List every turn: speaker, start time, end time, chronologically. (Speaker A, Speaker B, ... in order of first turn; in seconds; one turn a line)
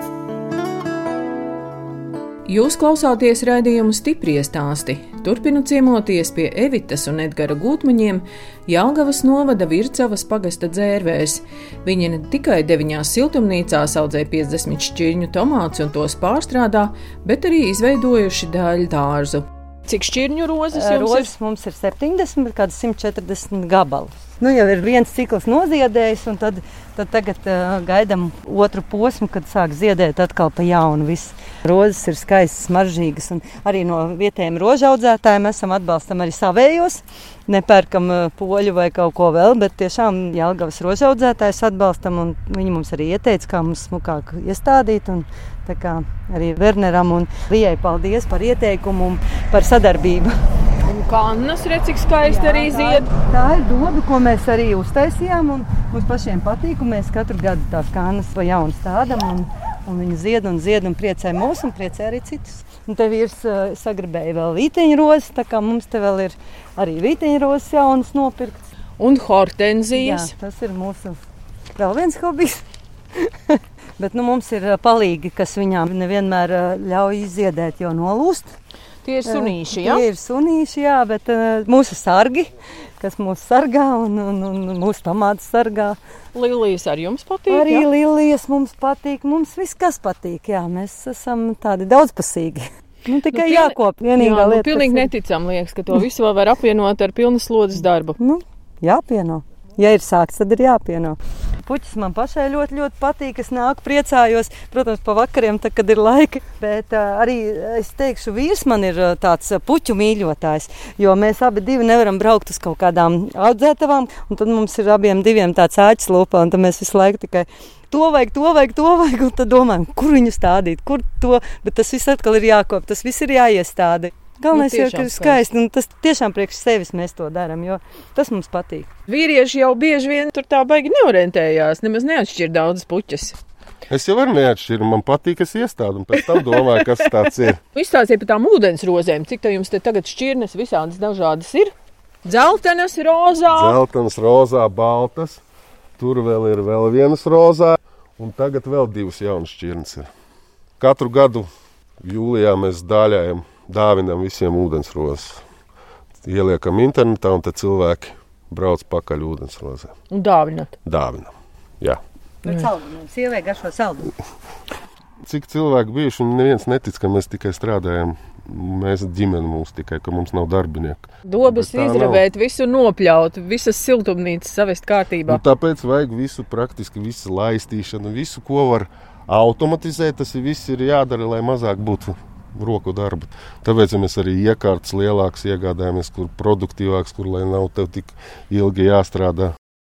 Speaker A: 2.5-21.3
Speaker B: 20.7-50.3
Speaker A: 50.8-53.1
Speaker B: 52.2-68.7
Speaker A: 69.0-70.3
Speaker B: 69.9-71.2
Speaker B: 71.8-72.6
Speaker B: 73.1-78.5
Speaker A: 79.0-80.0
Speaker B: 79.2-86.0
Speaker A: 86.3-87.9
Speaker B: 87.5-95.1
Speaker A: 93.3-98.2
Speaker B: 98.2-128.9
Speaker A: 124.5-125.4
Speaker A: 129.1-133.4
Speaker C: 133.9-137.6
Speaker A: 136.2-137.2
Speaker A: 137.7-141.7
Speaker A: 142.2-143.8
Speaker C: 143.5-145.4
Speaker C: 146.0-150.1
Speaker C: 150.8-151.5
Speaker C: 152.0-155.4
Speaker C: 156.2-159.9
Speaker A: 160.1-160.7
Speaker C: 160.8-162.0
Speaker B: 162.4-164.1
Speaker C: 165.2-172.2
Speaker A: 171.2-175.4
Speaker C: 175.3-189.5